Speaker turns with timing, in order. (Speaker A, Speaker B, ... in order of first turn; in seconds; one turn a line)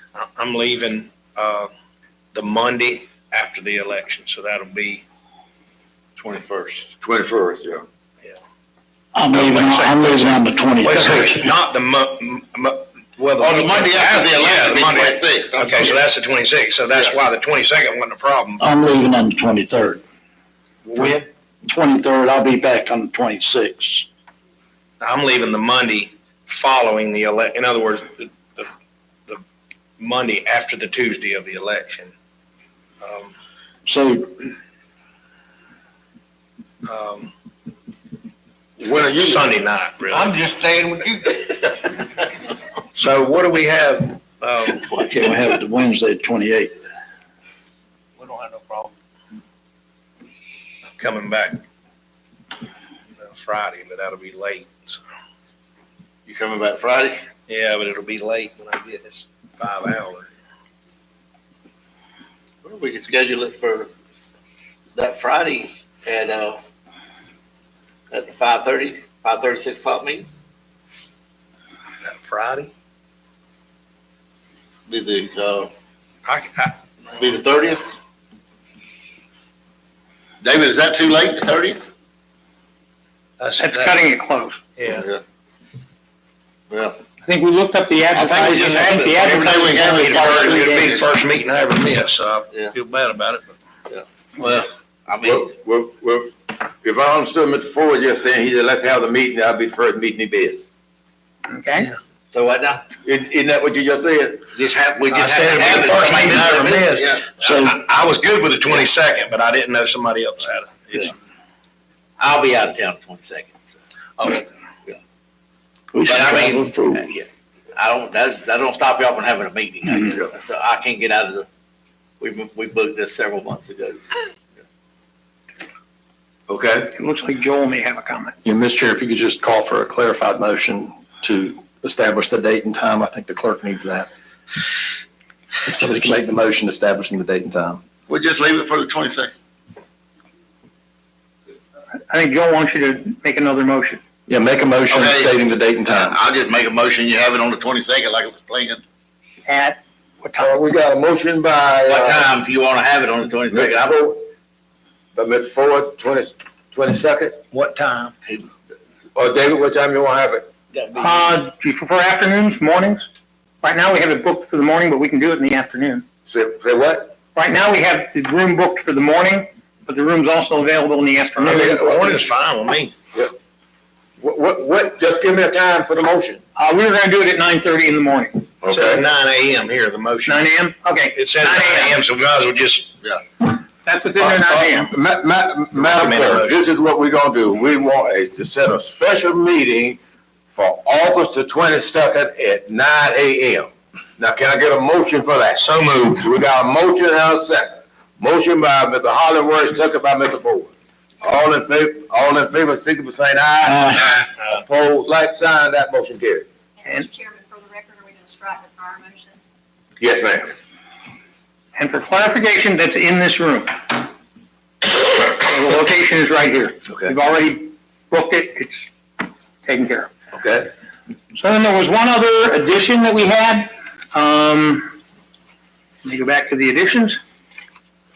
Speaker A: 0.1-1.7
Speaker A: 2.3-5.0
Speaker B: 6.2-6.9
Speaker C: 7.0-7.9
Speaker D: 9.2-11.5
Speaker A: 9.3-18.7
Speaker B: 13.4-16.1
Speaker D: 18.6-20.0
Speaker A: 20.9-21.2
Speaker D: 21.0-24.1
Speaker A: 25.0-28.7
Speaker A: 30.0-32.1
Speaker A: 33.0-33.3
Speaker D: 33.9-34.3
Speaker A: 36.8-37.3
Speaker C: 38.8-39.5
Speaker A: 38.9-40.4
Speaker A: 43.0-45.0
Speaker D: 44.9-46.8
Speaker A: 48.2-48.8
Speaker A: 51.0-51.6
Speaker A: 53.2-55.0
Speaker B: 56.3-57.2
Speaker A: 57.5-60.3
Speaker B: 62.6-63.9
Speaker B: 65.0-66.6
Speaker B: 68.1-70.3
Speaker A: 72.0-72.7
Speaker B: 74.9-75.7
Speaker A: 76.3-76.8
Speaker B: 77.2-77.8
Speaker B: 80.4-81.8
Speaker A: 83.4-84.0
Speaker E: 83.6-84.6
Speaker A: 84.8-85.1
Speaker B: 84.9-85.2
Speaker B: 86.7-87.0
Speaker E: 87.2-90.9
Speaker A: 88.2-88.8
Speaker B: 88.2-91.1
Speaker A: 89.8-93.5
Speaker B: 93.9-95.5
Speaker C: 95.2-100.7
Speaker E: 101.5-101.9
Speaker B: 102.3-102.8
Speaker C: 103.0-104.5
Speaker B: 104.5-107.4
Speaker A: 105.1-111.1
Speaker D: 107.4-107.8
Speaker B: 112.2-113.6
Speaker B: 114.2-115.0
Speaker D: 115.9-116.7
Speaker B: 116.0-121.5
Speaker B: 122.2-124.2
Speaker C: 126.5-126.9
Speaker E: 127.0-128.4
Speaker F: 128.4-134.1
Speaker F: 135.7-137.8
Speaker B: 138.1-139.3
Speaker E: 142.1-144.0
Speaker F: 144.3-146.2
Speaker B: 144.9-148.8
Speaker E: 149.5-150.5
Speaker C: 150.4-152.3
Speaker B: 151.9-153.9
Speaker C: 153.5-154.2
Speaker C: 155.2-157.4
Speaker A: 157.5-158.1
Speaker C: 159.2-160.5
Speaker E: 160.9-163.1
Speaker E: 163.6-166.0
Speaker C: 166.3-167.1
Speaker E: 167.3-172.2
Speaker A: 171.4-172.9
Speaker C: 174.2-176.4
Speaker E: 176.6-178.5
Speaker C: 178.6-179.0
Speaker A: 178.7-180.4
Speaker E: 180.3-182.0
Speaker A: 181.2-182.9
Speaker E: 183.8-184.9
Speaker C: 184.2-190.0
Speaker A: 185.8-186.6
Speaker C: 190.5-200.7
Speaker A: 195.6-196.3
Speaker C: 201.2-206.5
Speaker B: 203.7-204.1
Speaker G: 207.1-209.4
Speaker C: 210.0-210.5
Speaker E: 211.8-214.1
Speaker E: 214.9-218.9
Speaker E: 219.6-220.1
Speaker C: 220.3-220.7
Speaker E: 221.3-224.9
Speaker E: 226.0-227.2